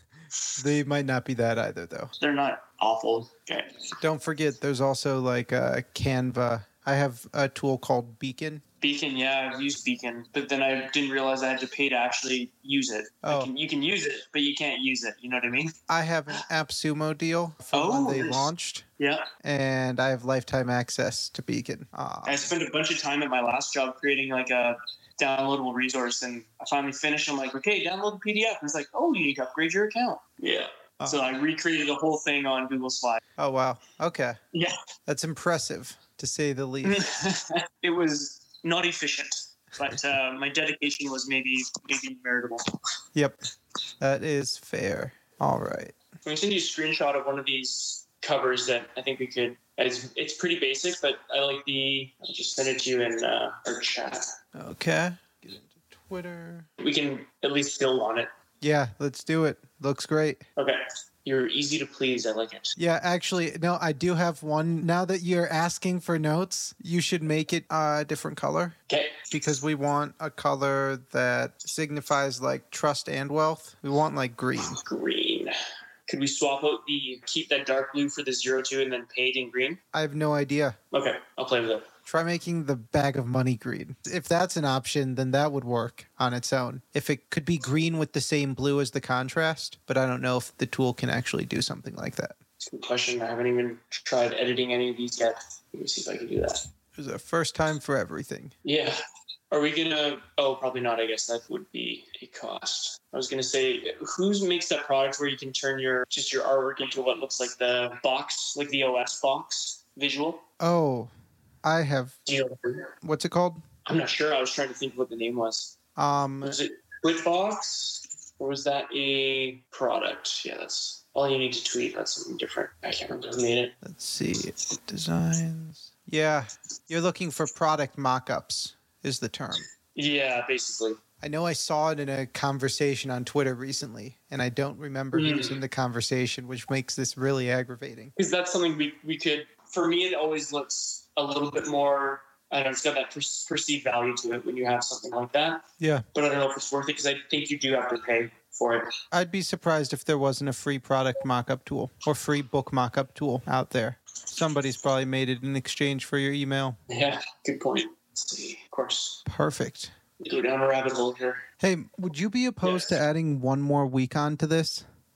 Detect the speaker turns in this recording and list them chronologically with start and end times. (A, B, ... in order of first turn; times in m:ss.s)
0:00.6-0:02.1 A
0:02.2-0:03.9 B
0:04.0-0:08.6 A
0:08.8-0:15.7 B
0:13.2-0:13.5 A
0:15.9-0:18.8 A
0:17.7-0:19.3 B
0:19.4-0:22.5 A
0:22.2-0:33.2 B
0:31.0-0:31.3 A
0:33.4-0:34.4 A
0:35.1-0:37.0 A
0:36.8-0:42.6 B
0:44.0-0:45.9 A
0:46.2-0:54.3 B
0:54.5-0:56.7 A
0:56.8-0:58.3 B
0:58.6-1:00.4 A
1:00.6-1:02.7 B
1:02.8-1:08.8 A
1:08.9-1:09.1 B
1:09.3-1:14.8 A
1:14.8-1:15.5 B
1:16.1-1:19.8 B
1:19.9-1:20.8 A
1:20.9-1:21.9 B
1:22.1-1:32.4 A
1:32.6-1:36.6 B
1:37.0-1:38.5 A
1:38.6-1:39.0 B
1:39.5-1:50.4 B
1:50.6-1:51.1 A
1:51.6-1:52.2 A
1:52.2-1:52.9 B
1:53.0-1:53.6 A
1:53.8-1:55.7 B
1:56.0-1:56.6 A
1:56.4-2:03.8 B
2:03.8-2:09.6 A
2:09.9-2:11.0 B
2:11.2-2:18.1 A
2:15.1-2:15.6 B
2:18.2-2:28.9 B
2:25.8-2:26.0 A
2:29.1-2:36.8 A
2:36.9-2:39.2 B
2:39.2-2:39.9 A
2:40.2-2:41.4 B
2:41.6-2:44.8 A
2:42.6-2:43.0 B